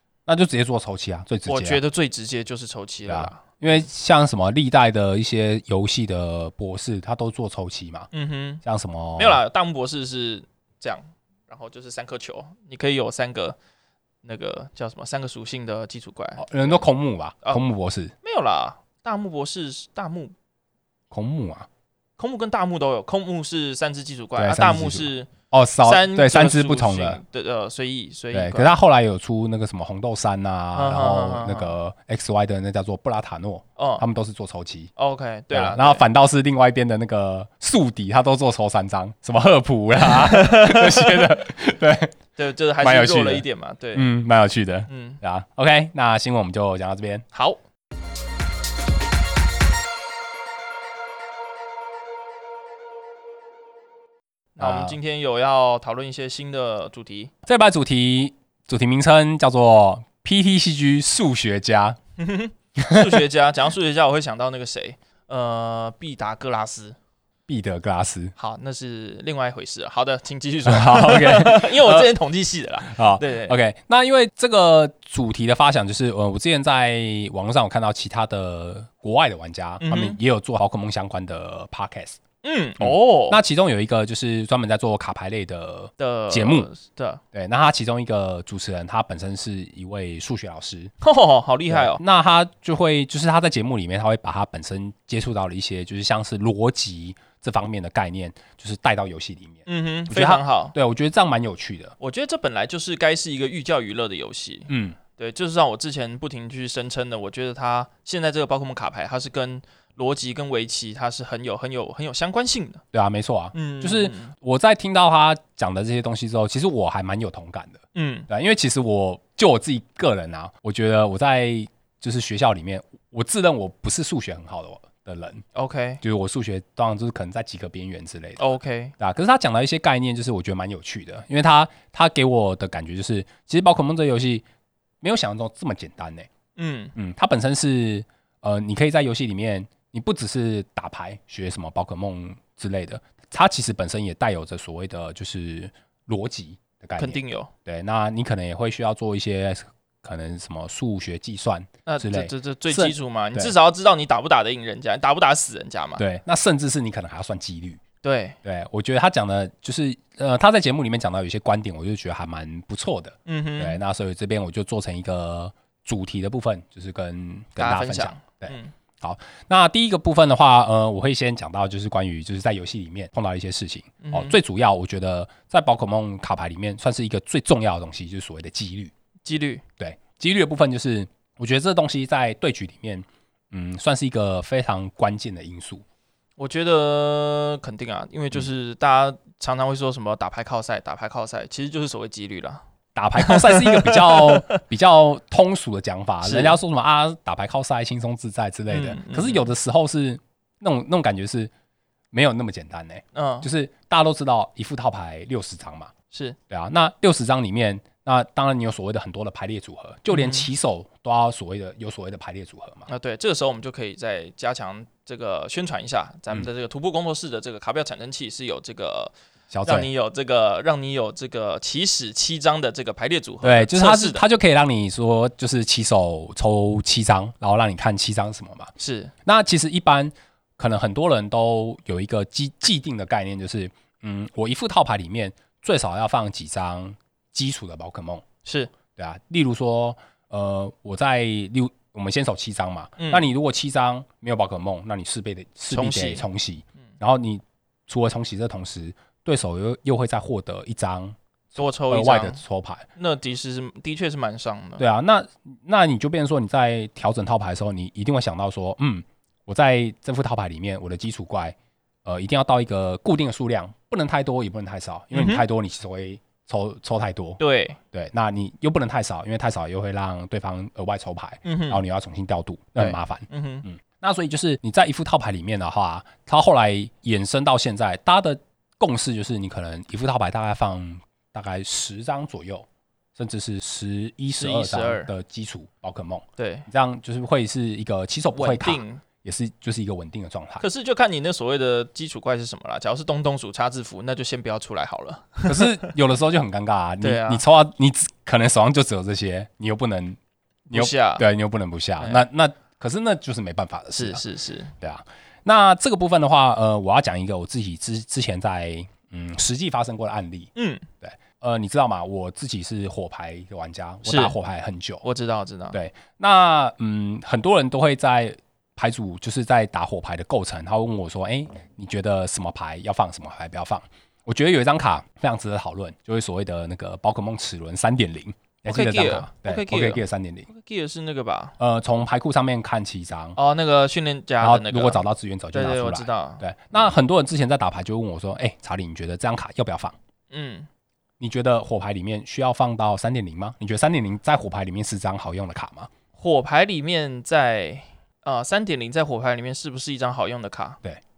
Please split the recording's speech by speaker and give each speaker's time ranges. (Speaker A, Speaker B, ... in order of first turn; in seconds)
Speaker A: 0.3-1.8, 3.1-8.1, 8.6-9.4, 16.4-18.1, 21.1-21.7, 24.4-27.2, 28.3-34.9, 35.5-42.1, 42.8-47.2, 54.6-55.0, 57.5-62.0, 62.8-63.2, 67.5-68.3, 70.7-72.1, 72.8-82.2, 82.8-86.7, 87.3-90.9, 91.7-101.9, 104.7-105.0, 112.9-125.4, 126.0-134.4, 135.0-136.3, 136.9-153.5, 156.0-157.8, 158.4-178.9, 179.8-185.8, 192.9-201.5, 202.1-205.9, 206.5-212.9, 219.5-219.9, 223.4-228.7, 229.2-238.2, 238.9-252.8, 254.8-267.4, 267.9-290.6, 295.4-300.2, 300.7-304.2, 304.8-310.5, 311.0-315.0, 315.7-330.5, 331.6-333.4, 334.4-339.9, 341.2-345.9
Speaker B: 1.5-3.9, 8.1-8.6, 9.2-13.6, 14.2-16.8, 18.2-20.3, 22.2-25.3, 25.8-28.7, 30.7-31.7, 33.8-34.0, 35.0-36.0, 40.0-41.2, 42.4-44.1, 44.9-45.2, 47.3-47.6, 54.5-57.3, 62.2-67.0, 68.4-73.6, 79.8-80.2, 82.4-83.4, 86.0-87.2, 91.0-92.0, 99.7-100.8, 102.0-112.8, 113.5-114.3, 117.9-118.3, 125.5-126.0, 128.4-128.9, 136.6-136.9, 147.0-147.5, 151.8-156.0, 158.0-158.4, 163.2-163.8, 167.6-168.7, 174.0-174.4, 179.2-179.6, 186.4-192.6, 193.2-194.6, 196.2-196.6, 198.7-199.5, 203.1-203.5, 206.1-206.4, 210.1-210.5, 212.9-219.1, 219.7-224.2, 228.8-229.1, 238.4-238.7, 243.0-243.2, 245.7-246.2, 251.6-252.4, 253.0-254.8, 265.1-265.4, 267.4-267.8, 271.4-271.8, 272.8-273.6, 284.4-285.1, 286.4-286.7, 288.3-289.0, 290.6-295.9, 297.0-297.4, 300.7-301.2, 303.9-304.7, 310.6-310.9, 314.0-314.3, 315.0-315.8, 328.7-331.6, 333.4-336.4, 340.3-340.7, 346.2-350.8